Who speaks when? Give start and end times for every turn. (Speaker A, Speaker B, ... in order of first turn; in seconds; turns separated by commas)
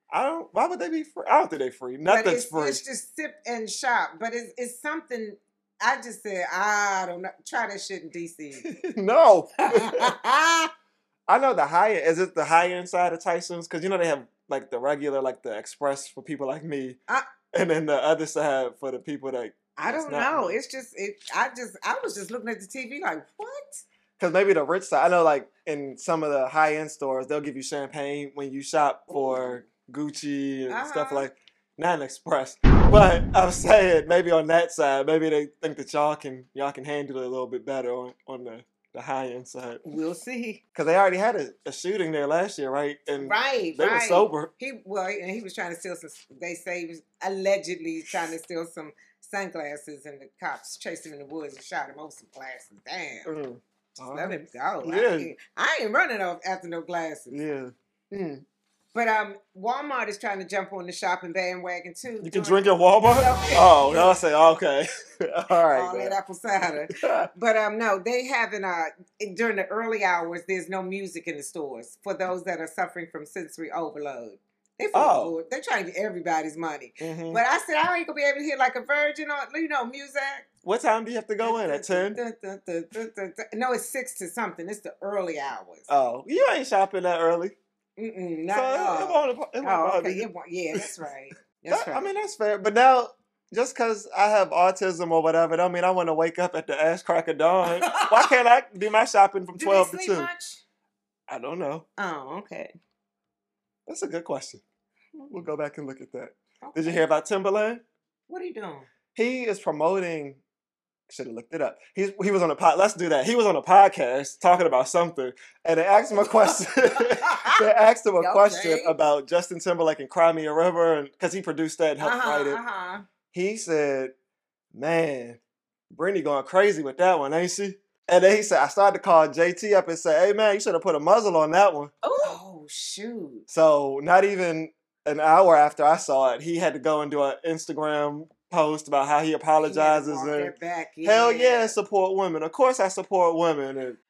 Speaker A: 0.1-2.8, Speaker B: 2.1-8.7, Speaker A: 8.6-10.2, Speaker B: 9.6-10.7, Speaker A: 11.3-17.0, Speaker A: 17.5-20.6, Speaker B: 19.8-23.8, Speaker A: 24.2-39.8, Speaker B: 29.1-29.6, Speaker B: 30.7-31.3, Speaker B: 39.8-40.6, Speaker A: 40.8-44.5, Speaker B: 43.2-53.3, Speaker A: 53.2-55.3, Speaker B: 54.1-57.4, Speaker A: 57.3-58.4, Speaker B: 58.9-64.2, Speaker A: 62.2-66.2, Speaker B: 65.7-80.5, Speaker A: 66.8-67.3, Speaker A: 74.9-75.3, Speaker A: 77.0-77.4, Speaker A: 80.6-82.2, Speaker B: 81.4-85.9, Speaker A: 85.9-87.5, Speaker B: 88.0-92.1, Speaker A: 88.5-90.8, Speaker A: 91.7-100.3, Speaker B: 97.7-98.4, Speaker B: 99.6-100.6, Speaker A: 101.3-101.9, Speaker B: 102.0-102.7, Speaker A: 103.9-104.6, Speaker B: 105.2-105.4, Speaker A: 105.3-107.8, Speaker B: 106.6-107.0, Speaker B: 108.3-108.9, Speaker A: 109.2-110.4, Speaker A: 111.1-122.6, Speaker B: 116.1-117.6, Speaker B: 118.2-119.0, Speaker B: 122.0-123.0, Speaker A: 123.3-124.1, Speaker A: 124.7-125.4, Speaker A: 125.9-132.3, Speaker B: 132.2-133.5, Speaker A: 133.5-144.0, Speaker B: 139.6-141.8